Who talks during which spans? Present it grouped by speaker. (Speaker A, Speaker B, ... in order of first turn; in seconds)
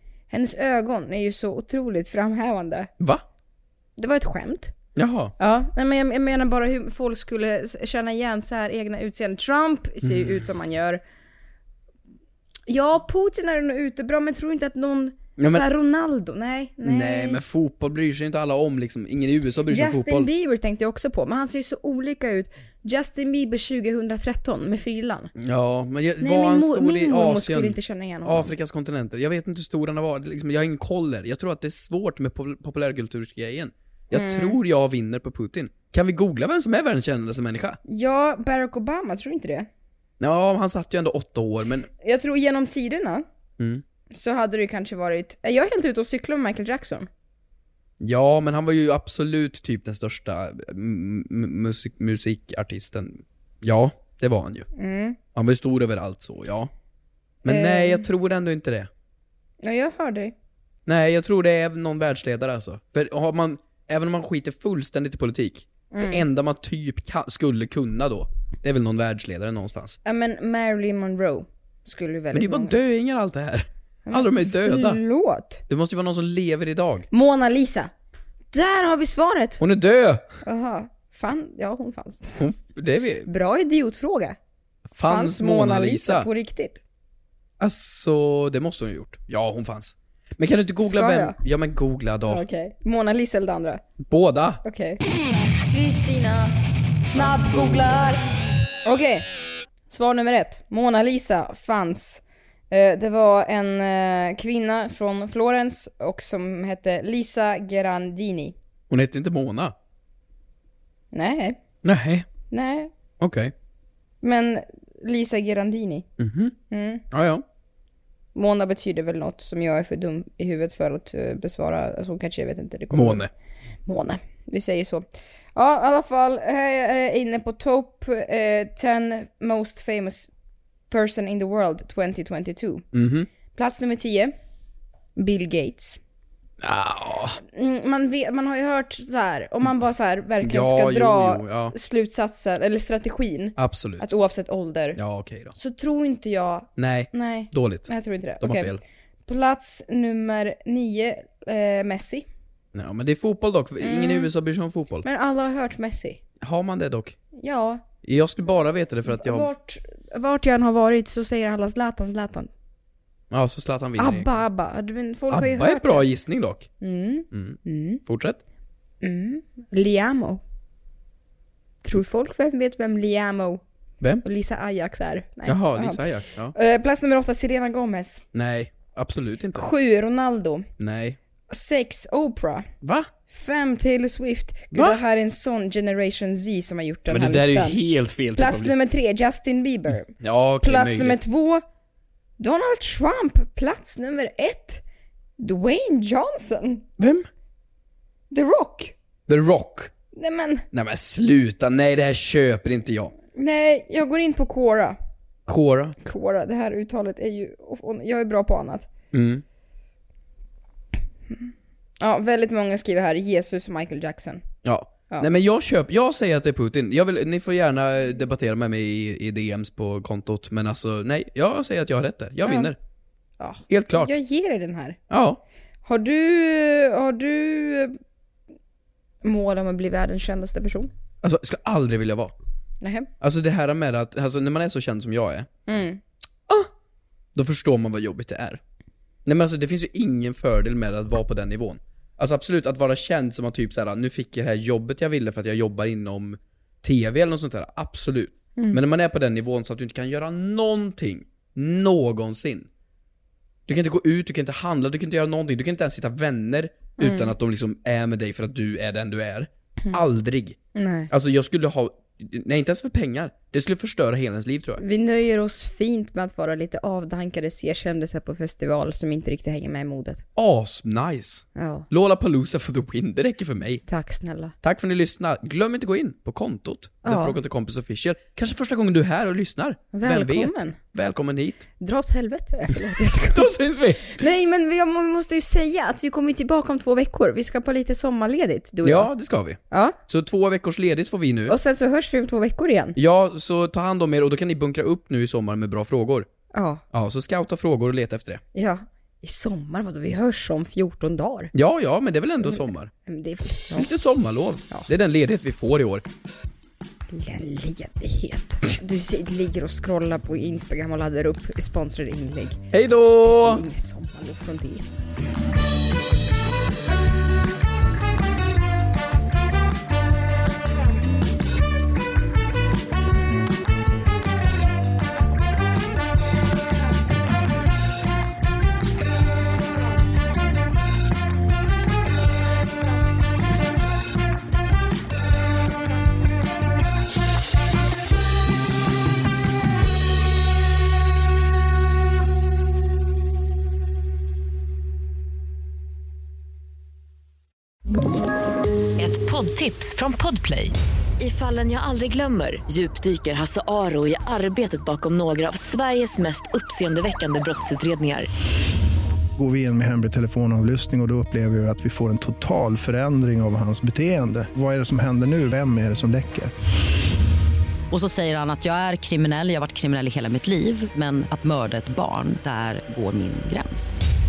Speaker A: 0.3-2.9, 4.0-4.7, 5.4-11.0, 12.7-17.4, 19.7-25.3, 26.2-28.5, 34.1-34.6, 37.8-39.7, 42.0-43.2, 44.1-47.1, 54.8-55.2, 57.5-58.0, 59.6-60.3, 65.9-66.2, 70.0-72.8, 74.1-75.6, 77.1-77.9, 78.5-79.6, 80.4-82.4, 83.2-84.4, 85.0-86.8, 90.8-91.4, 92.2-93.8, 94.6-95.0, 95.7-98.2, 98.8-99.2, 99.9-108.5, 111.1-111.6, 112.5-112.9, 114.2-116.0, 116.7-117.0, 118.3-123.2, 123.8-130.3, 130.9-132.8, 133.5-134.3, 135.2-136.0, 137.5-145.0, 145.5-152.3, 153.8-154.3, 155.0-156.2, 157.4-157.8, 159.1-162.5, 164.0-166.1, 166.8-168.0, 169.0-170.4, 171.8-173.6, 174.2-178.2, 179.6-180.7, 181.5-182.7, 183.3-187.8, 188.3-191.6, 192.4-194.8, 195.4-197.0, 198.3-198.9, 200.1-200.6, 203.3-205.0, 206.0-208.9, 212.0-214.4, 222.4-222.7, 223.4-225.0, 225.8-228.0, 229.2-230.9, 232.8-233.1, 235.7-236.0, 257.0-257.3, 260.7-261.1, 264.8-270.2, 271.6-271.9, 273.9-274.5, 277.0-277.4, 279.9-280.8, 281.8-283.5, 284.1-289.1, 289.7-290.0, 291.5-293.0, 296.5-296.8, 298.5-301.5, 302.4-303.9, 307.1-312.6, 313.3-314.9
Speaker B: 5.0-5.3, 10.0-10.4, 15.4-15.6, 16.8-20.3, 25.4-37.8, 40.2-41.9, 48.0-54.7, 55.3-56.7, 57.4-58.9, 60.9-70.0, 72.3-75.0, 75.7-77.1, 79.6-80.3, 82.4-83.3, 84.9-86.3, 87.6-92.4, 94.0-94.6, 108.9-109.7, 111.8-112.2, 113.2-113.5, 116.2-116.5, 117.1-117.4, 122.9-123.3, 132.9-133.3, 136.6-137.4, 140.4-141.7, 143.6-144.1, 144.9-145.5, 146.8-148.8, 152.7-155.1, 156.4-157.2, 158.0-159.5, 163.3-164.3, 165.3-166.7, 167.3-168.4, 175.5-176.5, 178.3-179.7, 180.8-181.2, 182.8-183.1, 184.7-185.0, 187.1-188.8, 190.2-191.2, 197.0-197.3, 199.3-199.9, 200.7-203.1, 205.5-206.0, 209.1-209.4, 214.6-222.8, 223.7-224.1, 225.1-225.4, 231.2-232.3, 233.2-235.5, 237.3-238.6, 239.2-252.7, 253.7-260.6, 261.1-264.8, 270.4-273.8, 274.6-281.7, 283.3-284.2, 288.8-291.6, 292.9-296.3, 296.9-298.4, 301.5-302.9, 303.7-306.0, 312.7-313.6
Speaker C: 349.0-358.3
Speaker D: 359.4-366.5
Speaker E: 367.9-374.0